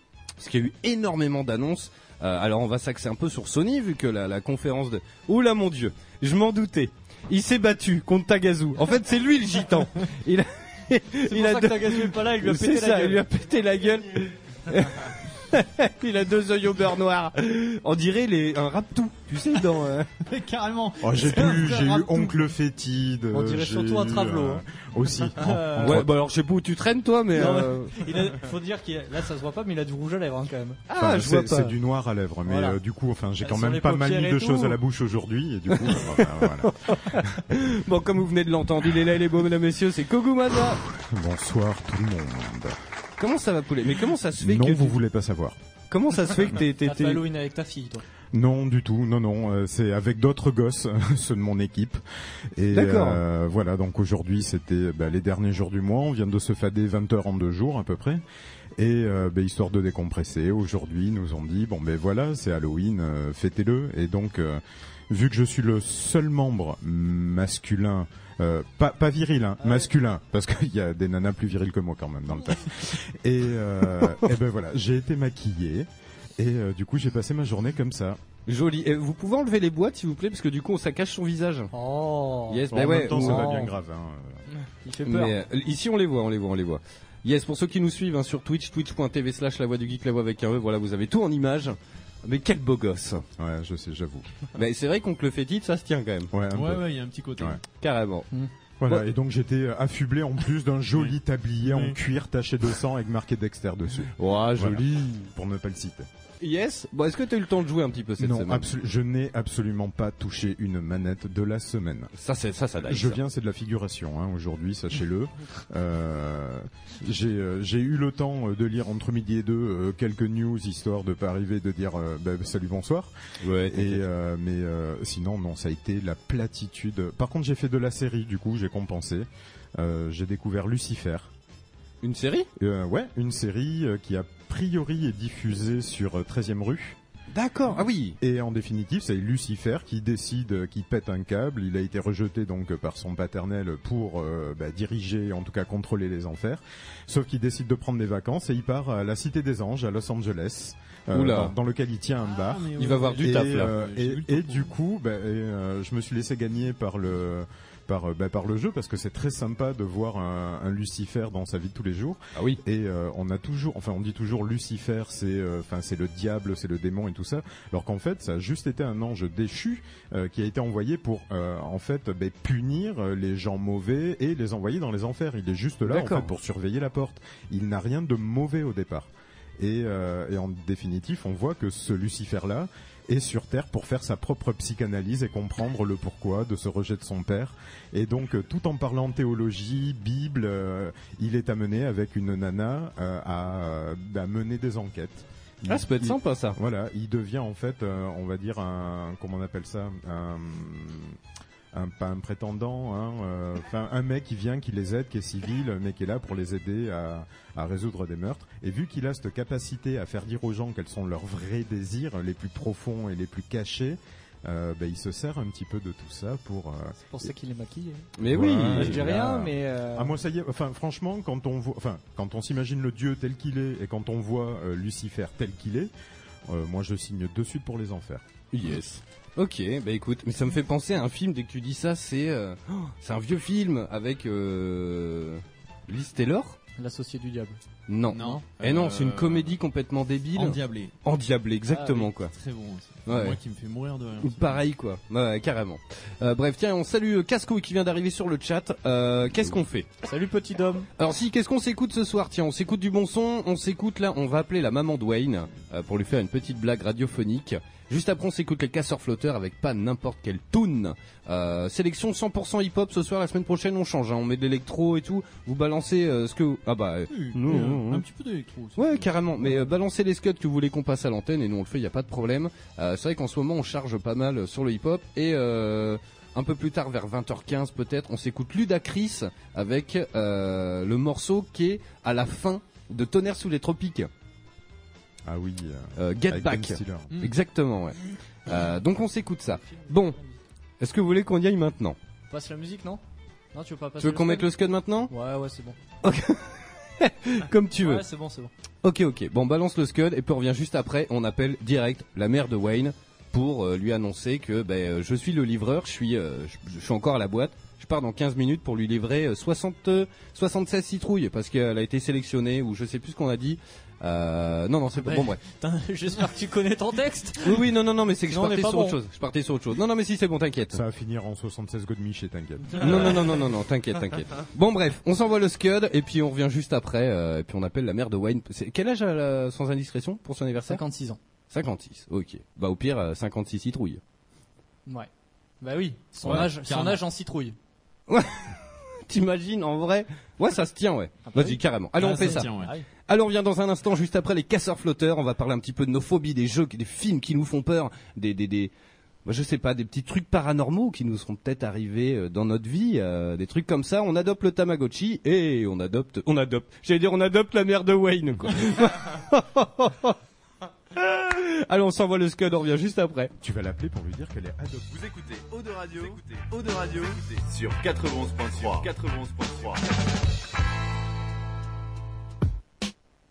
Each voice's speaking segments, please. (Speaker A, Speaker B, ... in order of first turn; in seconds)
Speaker A: 0.4-20.1, 25.8-27.9, 30.9-31.7, 35.7-40.8, 43.2-45.0, 45.9-47.2, 52.7-53.2, 78.5-81.7, 82.5-83.6, 85.0-93.2, 94.5-96.3, 97.8-98.3, 104.2-105.3, 106.4-108.7, 112.2-113.2, 123.4-124.0, 132.0-132.5, 137.3-138.2, 151.1-151.5, 152.8-153.7, 175.8-176.3, 195.7-196.6, 218.2-219.3, 228.5-236.6, 237.9-242.3, 243.1-243.4, 244.2-249.9, 251.0-268.1, 268.8-284.1, 286.0-290.2, 290.8-292.0, 294.0-295.1, 296.0-298.0, 298.8-315.4, 317.4-320.8, 322.8-330.8, 331.5-334.0, 338.1-342.5, 343.1-348.7, 349.2-360.2, 360.9-363.3
Speaker B: 11.2-13.2, 23.3-24.6, 25.2-26.0, 27.3-30.8, 32.5-32.8, 33.4-34.8, 46.8-48.0, 69.6-69.9, 81.7-83.7, 84.8-85.4, 217.0-218.1, 218.6-220.2, 236.8-237.6, 241.7-242.0, 250.0-250.9, 289.6-290.3, 292.3-293.0, 293.5-294.5, 295.1-295.8, 297.8-298.5, 315.0-317.6, 318.3-319.0, 330.7-331.2, 335.6-337.6, 341.2-342.9
Speaker C: 20.2-22.4, 96.5-97.6, 100.9-102.0, 152.2-154.7, 238.1-239.6, 240.3-240.9, 242.3-244.6, 267.1-269.7, 336.2-337.0, 341.9-342.7, 365.6-367.2
Speaker D: 21.0-26.1, 31.0-37.2, 40.9-42.8, 44.4-45.6, 48.3-52.0, 52.5-58.2, 58.8-78.2, 82.7-84.4, 93.4-94.3, 96.3-97.6, 98.8-106.1, 108.2-112.1, 112.9-123.1, 123.7-131.3, 132.6-137.0, 138.2-201.2, 201.7-217.0, 218.2-225.9, 226.5-228.2, 285.2-287.1, 320.7-323.4, 363.4-364.9
Speaker E: 364.9-370.1